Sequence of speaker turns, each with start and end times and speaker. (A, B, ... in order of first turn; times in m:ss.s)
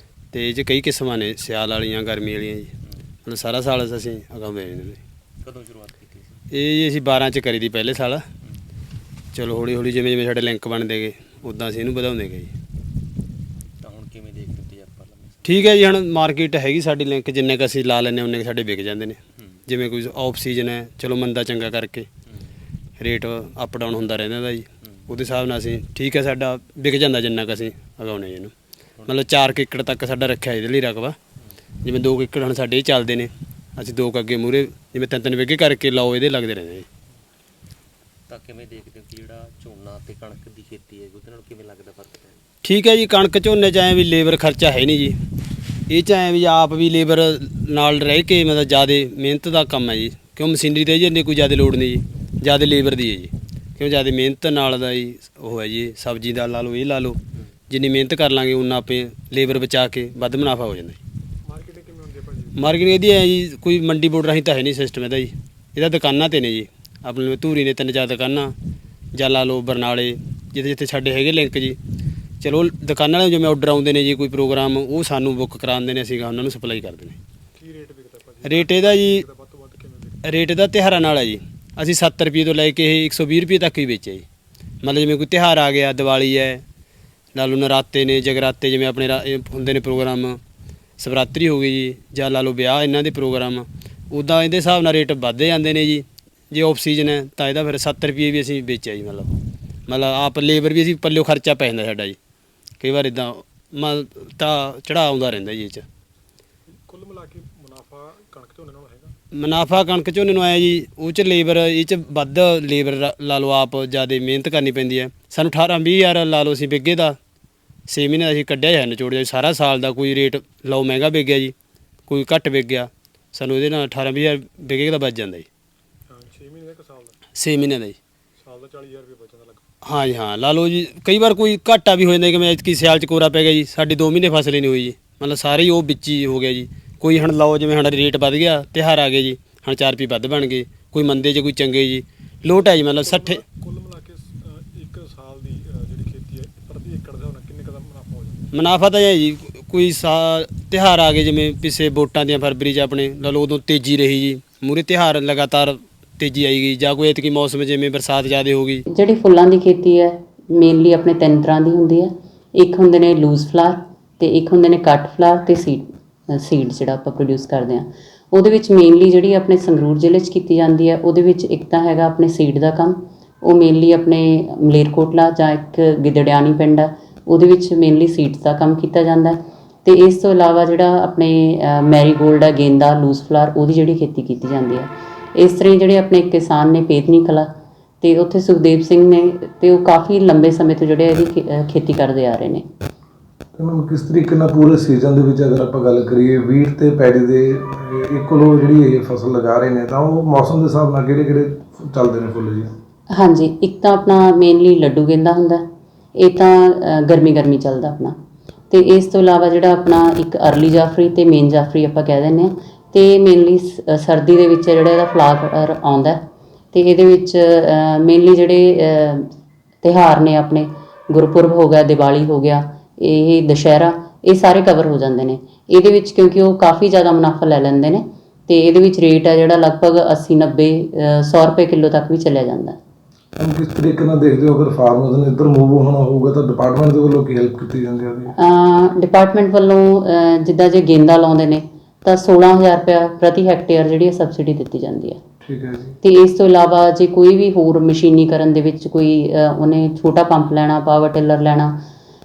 0:00.3-0:02.7 A
0:03.2-0:05.0 A
0:05.4-0:06.4 B
0:06.5-0:08.3 A
0:09.3-0:12.5 A
0:13.8-0:15.5 B
0:15.4-0:22.1 A
0:23.0-0:28.5 A
0:29.0-0:31.2 A
0:31.8-0:36.9 A
0:38.3-0:42.4 B
0:42.6-0:45.2 A
0:45.9-0:57.2 A
0:57.7-1:01.0 A
1:01.4-1:02.7 C
1:02.6-1:08.5 A
1:09.1-1:11.8 A
1:12.4-1:17.2 A
1:17.5-1:20.2 C
1:18.4-1:19.2 A
1:20.2-1:24.2 A
1:24.8-1:26.6 A
1:27.3-1:30.4 A
1:31.0-1:39.3 A
1:39.9-1:42.2 A
1:42.8-1:45.8 A
1:46.7-1:49.1 C
1:49.4-1:57.2 A
1:57.9-2:01.5 A
2:02.1-2:05.4 A
2:06.1-2:07.2 C
2:07.4-2:08.0 A
2:08.4-2:09.6 C
2:09.8-2:23.4 A
2:22.9-2:28.5 C
2:28.5-2:38.8 A
2:38.9-3:07.5 D
3:08.0-3:12.6 D
3:13.6-3:22.7 E
3:23.1-3:25.6 D
3:26.1-3:28.2 D
3:28.7-3:36.2 D
3:36.7-3:39.3 D
3:39.8-3:52.8 D
3:53.4-3:58.3 E
3:58.4-4:05.2 D
4:05.4-4:05.9 E
4:06.0-4:11.8 D